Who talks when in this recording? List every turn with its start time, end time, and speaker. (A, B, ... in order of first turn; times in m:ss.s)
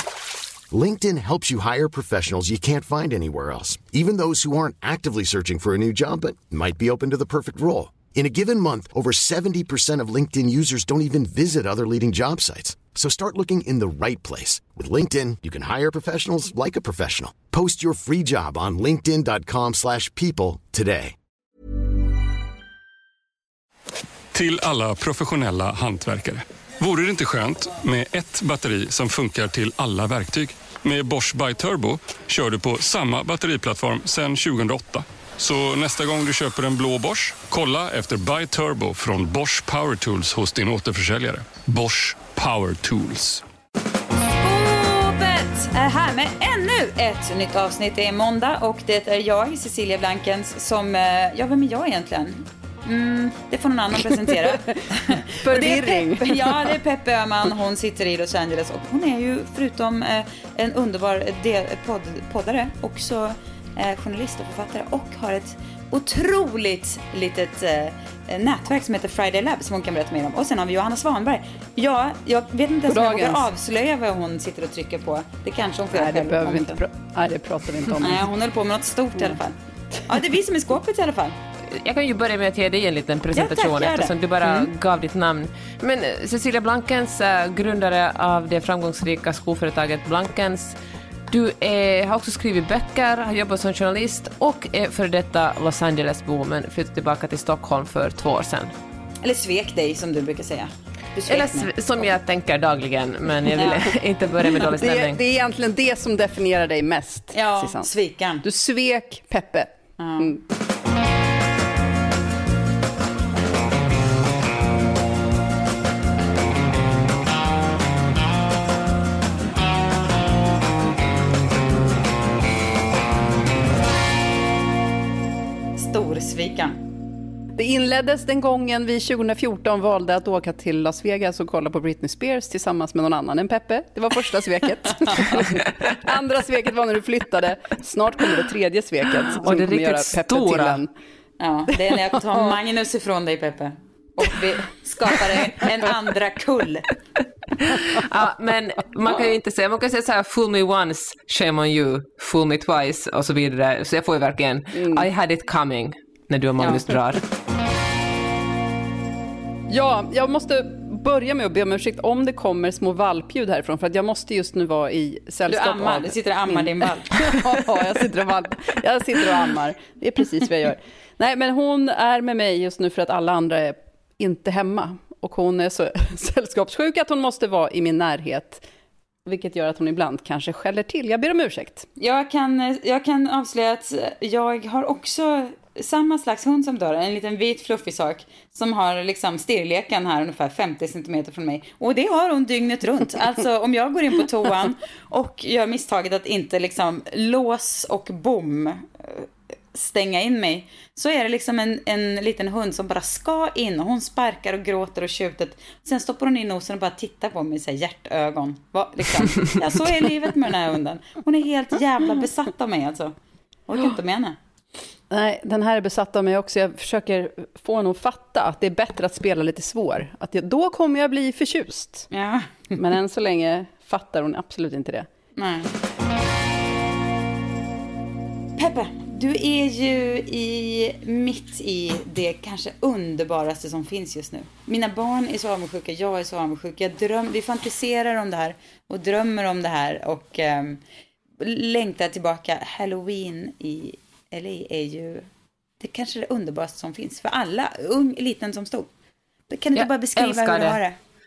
0:00.7-0:21.2 A
0:24.3-0:43.4 B
0:44.4-1:16.8 C
0:54.1-0:54.8 D
0:55.3-0:56.8 D
1:12.9-1:13.5 D
1:15.9-1:18.2 D
1:18.0-1:19.6 C
1:20.1-1:21.4 C
1:21.7-1:30.8 E
1:23.3-1:24.7 C
1:31.3-1:38.7 E
1:39.2-1:41.7 C
1:41.3-1:45.2 E
1:43.5-1:43.9 C
1:44.6-1:47.9 D
1:47.3-1:48.4 C
1:48.4-1:50.4 D
1:50.0-1:50.4 C
2:05.8-2:06.8 C
2:07.6-2:20.9 D
2:15.1-2:15.3 C
2:19.4-2:20.8 E
2:21.4-2:26.9 C
2:21.9-2:22.5 D
2:27.6-2:37.2 E
2:34.7-2:35.1 D
2:36.6-2:36.9 C
2:39.7-2:58.6 D
2:45.5-2:47.7 C
2:59.2-3:01.9 D
3:02.0-3:33.1 C
3:33.7-3:34.4 C
3:35.1-3:42.1 D
3:42.1-3:42.8 C
3:42.8-3:45.1 D
3:45.4-3:45.7 C
3:48.6-4:00.8 C
4:01.4-4:05.2 C
4:05.8-4:08.9 C
4:09.5-4:11.0 C
4:09.7-4:10.8 E